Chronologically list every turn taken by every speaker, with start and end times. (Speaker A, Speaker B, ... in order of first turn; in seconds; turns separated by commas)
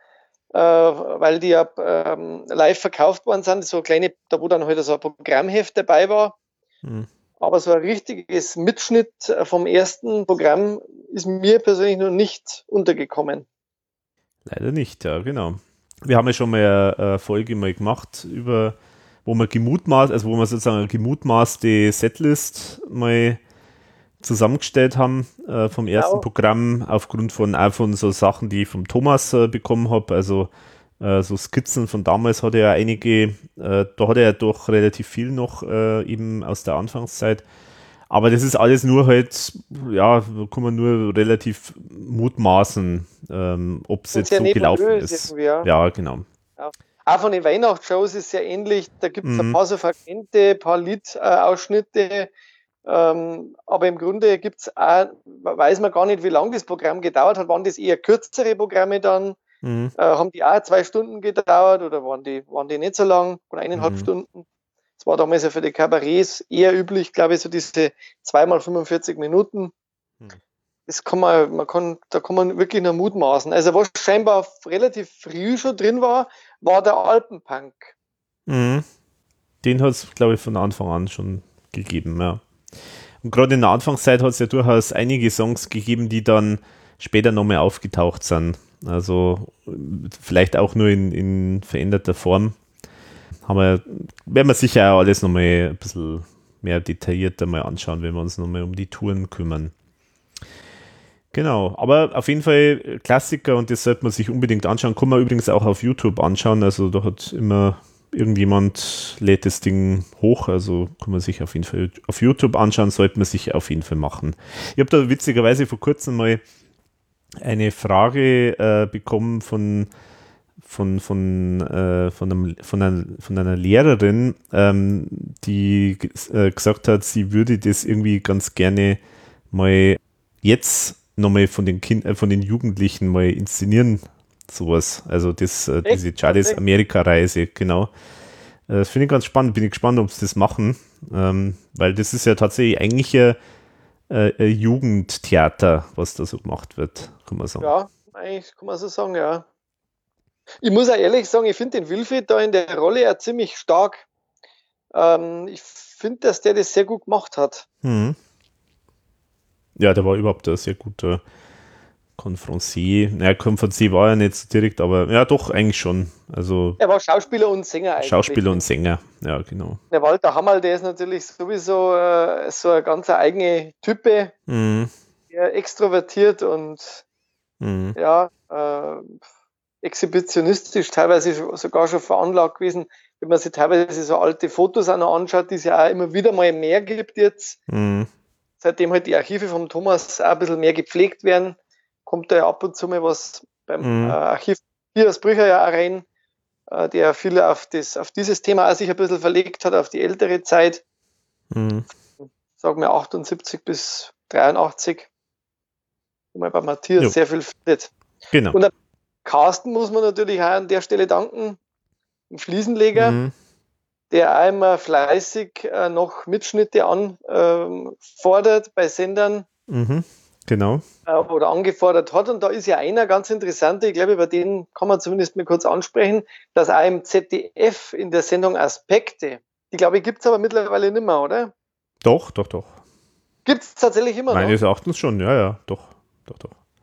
Speaker A: 0.5-6.4, Speaker B: 6.8-7.1, Speaker A: 7.4-13.5, Speaker B: 14.5-23.4, Speaker B: 24.2-37.4, Speaker A: 25.9-26.2, Speaker B: 38.1-46.3, Speaker A: 44.1-45.7, Speaker A: 46.6-52.3, Speaker B: 49.2-49.6, Speaker A: 52.9-59.4, Speaker B: 59.6-59.9, Speaker A: 60.0-64.5, Speaker B: 63.8-64.1, Speaker A: 65.0-69.7, Speaker A: 70.9-77.9, Speaker B: 78.5-78.9, Speaker B: 79.6-82.4, Speaker B: 83.2-92.6, Speaker B: 93.5-99.7, Speaker B: 101.3-116.4, Speaker B: 117.4-119.9, Speaker B: 120.6-129.0, Speaker B: 129.5-137.9, Speaker A: 135.8-136.6, Speaker B: 138.7-143.4, Speaker B: 144.1-147.7, Speaker A: 147.6-149.4, Speaker A: 150.6-154.1, Speaker A: 154.9-157.7, Speaker B: 157.8-158.2, Speaker B: 159.8-161.2, Speaker B: 162.2-166.8, Speaker A: 166.8-168.6, Speaker B: 168.0-169.8, Speaker A: 169.9-174.3, Speaker B: 174.5-174.9, Speaker A: 175.3-177.0, Speaker B: 177.6-178.0, Speaker A: 178.0-179.2, Speaker A: 179.8-187.6, Speaker B: 187.7-188.1, Speaker A: 188.6-196.1, Speaker B: 193.8-194.2, Speaker A: 196.7-200.8, Speaker B: 201.5-201.9, Speaker A: 202.2-205.1, Speaker A: 206.3-207.9, Speaker B: 208.3-208.6, Speaker A: 209.2-211.6, Speaker A: 212.3-213.2, Speaker B: 212.9-213.3, Speaker A: 214.1-219.5, Speaker B: 219.7-220.8, Speaker A: 221.1-231.5, Speaker B: 232.0-232.8, Speaker A: 233.4-234.6, Speaker B: 234.3-236.5